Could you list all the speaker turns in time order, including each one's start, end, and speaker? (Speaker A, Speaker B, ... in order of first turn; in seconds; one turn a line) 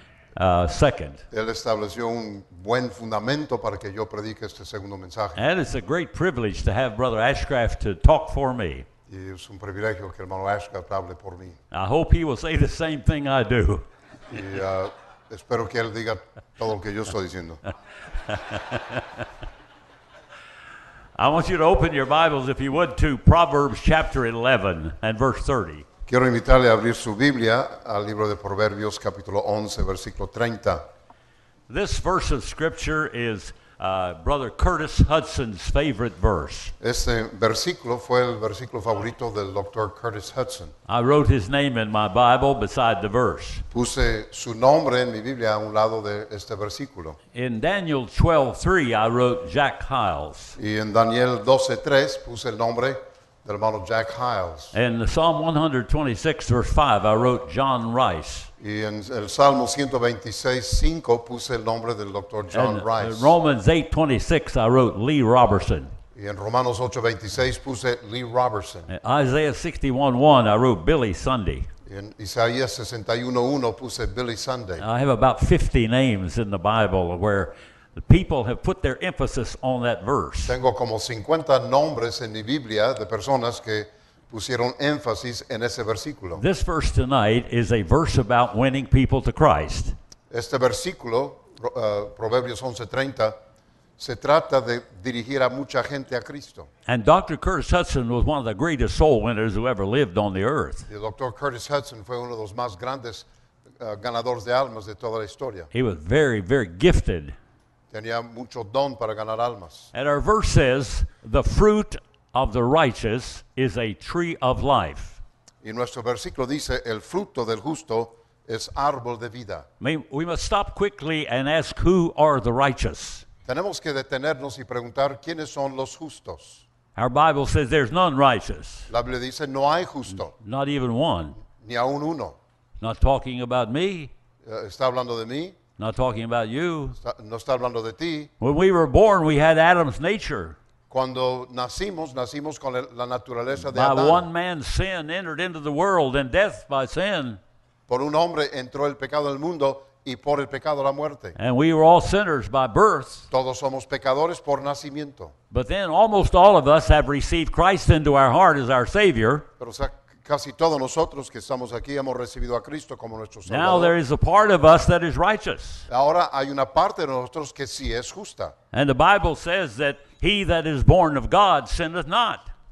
Speaker A: 0.3-1.2
Speaker B: 1.3-5.4
Speaker A: 5.4-8.8
Speaker B: 9.1-11.6
Speaker A: 11.7-13.8
Speaker B: 14.3-17.6
Speaker A: 18.3-19.0
Speaker A: 21.2-25.9
Speaker B: 26.1-30.8
Speaker A: 31.7-36.7
Speaker B: 36.8-40.7
Speaker A: 40.9-43.6
Speaker B: 43.7-47.2
Speaker A: 47.3-50.6
Speaker B: 50.6-54.7
Speaker A: 54.7-58.5
Speaker B: 58.6-63.3
Speaker A: 62.5-65.9
Speaker B: 66.2-68.9
Speaker A: 68.9-71.7
Speaker B: 71.9-74.8
Speaker A: 74.8-80.5
Speaker B: 80.4-86.4
Speaker A: 86.4-90.0
Speaker B: 90.3-93.3
Speaker B: 94.0-96.7
Speaker A: 96.8-100.9
Speaker B: 100.9-103.3
Speaker B: 103.8-105.7
Speaker A: 105.7-107.3
Speaker B: 107.9-109.9
Speaker A: 109.9-115.2
Speaker B: 115.6-119.7
Speaker A: 119.8-123.2
Speaker B: 123.5-126.6
Speaker A: 127.0-128.9
Speaker B: 128.9-130.3
Speaker A: 130.2-131.4
Speaker B: 131.5-132.4
Speaker A: 132.8-134.1
Speaker B: 134.4-135.6
Speaker A: 135.8-137.0
Speaker B: 137.0-138.3
Speaker A: 138.4-140.6
Speaker B: 140.9-144.3
Speaker A: 143.6-147.4
Speaker B: 147.9-151.4
Speaker A: 151.4-153.3
Speaker B: 153.3-155.3
Speaker A: 155.5-159.4
Speaker B: 159.6-163.9
Speaker A: 163.5-165.9
Speaker B: 165.9-168.5
Speaker A: 168.7-172.5